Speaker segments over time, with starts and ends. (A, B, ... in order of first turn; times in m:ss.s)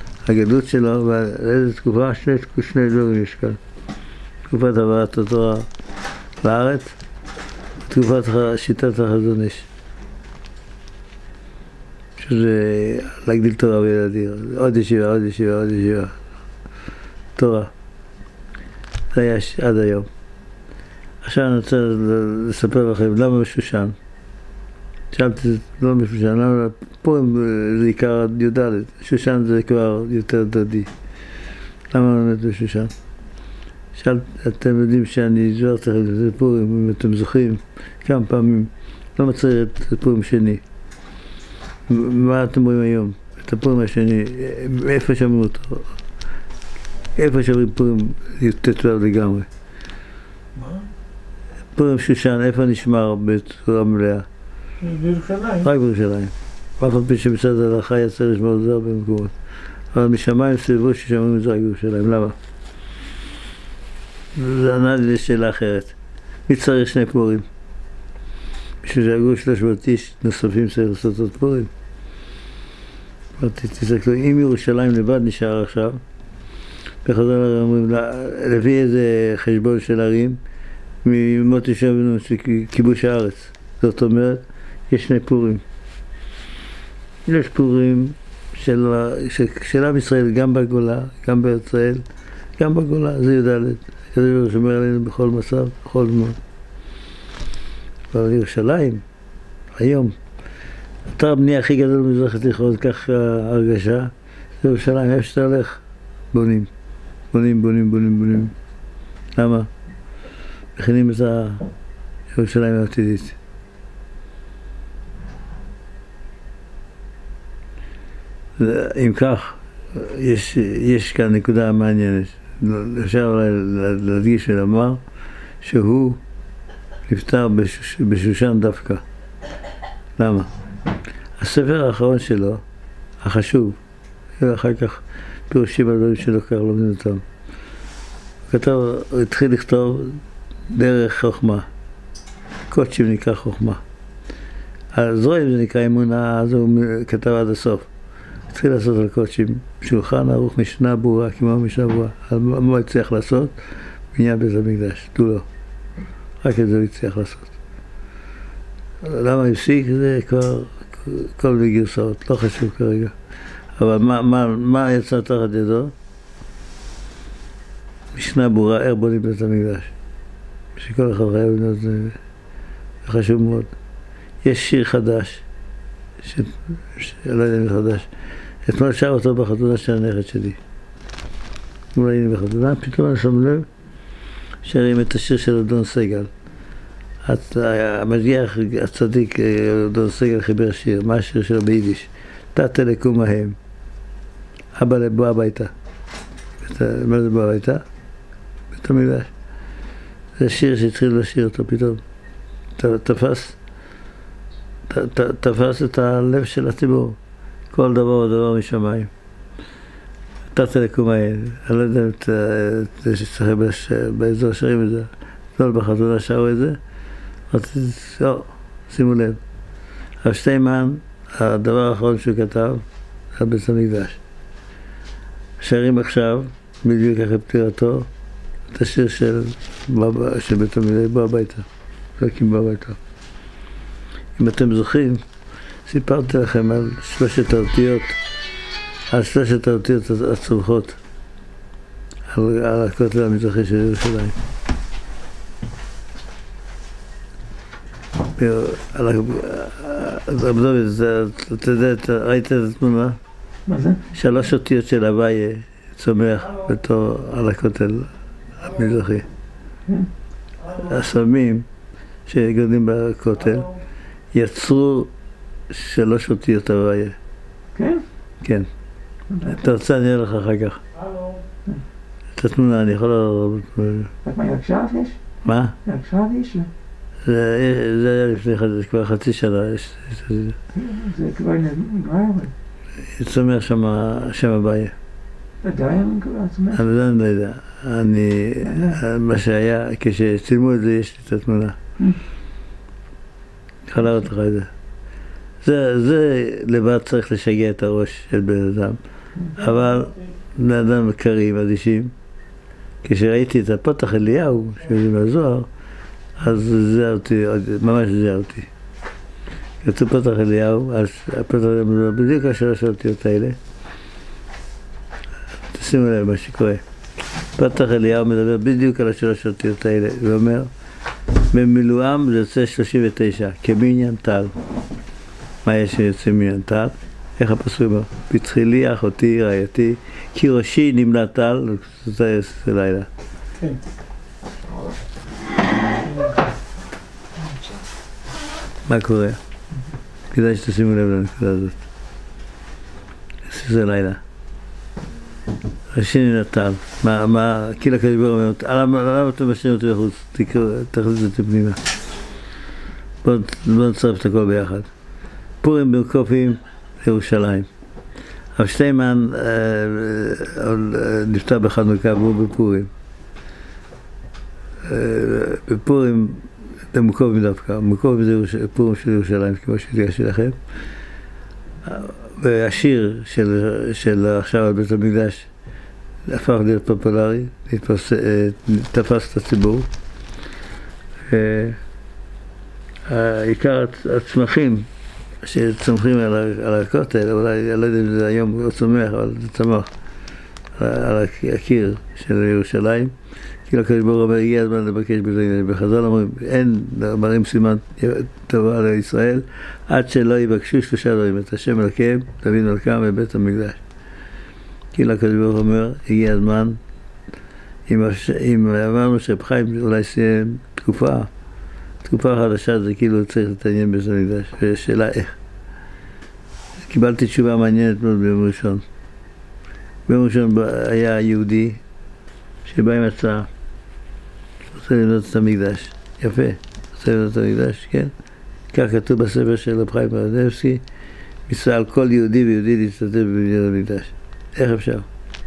0:00.2-0:03.6 A
0:04.5-0:05.7 A
0:06.4-0:07.0 A
0:07.9-0:09.7 A
0:12.2-0:16.2 A
0:17.4-0:17.7 A
0:19.1-0:20.1 A
0:21.2-0:24.0 A
0:25.1-0:30.9 A
0:31.9-0:32.9 A
0:34.0-0:40.6 A
0:41.9-0:45.9 A
0:47.2-0:49.5 A
0:50.6-0:50.9 B
0:51.8-0:54.3 A
0:54.8-0:55.7 B
0:55.6-0:59.3 A
0:59.9-1:02.4 A
1:04.4-1:06.0 A
1:06.5-1:07.5 A
1:08.8-1:11.7 A
1:13.4-1:16.0 A
1:17.0-1:20.4 A
1:21.0-1:25.6 A
1:27.3-1:32.0 A
1:32.6-1:36.4 A
1:38.1-1:39.0 A
1:39.8-1:40.2 A
1:41.1-1:45.8 A
1:46.3-1:46.7 A
1:47.3-1:48.5 A
1:49.4-1:49.7 A
1:50.8-1:51.6 A
1:52.3-1:53.4 A
1:58.6-2:05.0 A
2:05.6-2:06.2 A
2:07.1-2:09.0 A
2:10.2-2:10.5 A
2:11.4-2:12.6 A
2:13.2-2:13.8 A
2:14.4-2:17.2 A
2:18.5-2:20.2 A
2:20.7-2:21.7 A
2:22.7-2:23.8 A
2:24.9-2:27.9 A
2:28.5-2:33.5 A
2:34.1-2:35.5 A
2:36.4-2:37.5 A
2:39.0-2:43.1 A
2:43.8-2:45.9 A
2:48.1-2:49.9 A
2:50.8-2:52.2 A
2:53.0-2:53.7 A
2:54.4-2:55.4 A
2:56.2-2:58.1 A
2:58.6-3:00.6 A
3:02.0-3:03.7 A
3:04.6-3:06.3 A
3:07.2-3:13.6 A
3:14.8-3:15.7 A
3:16.6-3:17.8 A
3:18.7-3:19.3 A
3:20.4-3:22.0 A
3:22.8-3:23.6 A
3:24.9-3:27.2 A
3:27.7-3:29.1 A
3:30.5-3:36.8 A
3:37.5-3:39.4 A
3:40.2-3:44.2 A
3:45.6-3:48.1 A
3:48.7-3:51.7 A
3:52.2-3:53.0 A
3:54.4-3:55.2 A
3:55.9-3:58.2 A
3:59.1-4:01.0 A
4:02.3-4:04.4 A
4:08.4-4:13.2 A
4:13.7-4:14.1 C
4:14.1-4:19.3 A
4:20.7-4:21.7 A
4:22.3-4:23.7 A
4:24.3-4:25.1 A
4:25.7-4:27.2 A
4:27.8-4:28.0 C
4:28.4-4:28.7 A
4:29.4-4:30.8 A
4:31.0-4:31.3 B
4:32.4-4:34.1 A
4:34.2-4:35.2 C
4:35.4-4:35.8 A
4:35.8-4:36.7 C
4:37.2-4:40.6 A
4:40.7-4:42.5 C
4:43.0-4:44.9 A
4:45.6-4:46.8 C
4:46.7-4:51.8 A
4:48.7-4:49.0 C
4:53.9-4:54.7 A
4:55.6-4:59.0 A
4:59.5-5:02.1 A
5:03.0-5:05.7 A
5:06.4-5:08.7 A
5:09.8-5:13.6 A
5:15.7-5:16.8 A
5:17.6-5:20.7 A
5:21.5-5:24.5 A
5:25.6-5:33.1 A
5:36.0-5:36.5 B
5:38.9-5:39.4 A
5:40.3-5:41.8 A
5:43.5-5:44.2 A
5:45.9-5:51.8 A
5:53.2-5:54.9 A
5:55.6-5:57.7 A
5:58.6-6:02.9 A
6:04.8-6:10.6 A
6:11.8-6:15.5 A
6:16.3-6:19.9 A
6:21.3-6:21.8 A
6:23.1-6:24.9 A
6:25.4-6:29.9 A
6:30.8-6:33.1 A
6:33.7-6:43.8 A
6:44.9-6:46.8 A
6:47.9-6:51.3 A
6:52.0-6:55.4 A
6:56.8-6:58.8 A
7:00.1-7:01.8 A
7:02.6-7:03.5 A
7:04.7-7:08.1 A
7:08.7-7:10.8 A
7:11.5-7:15.1 A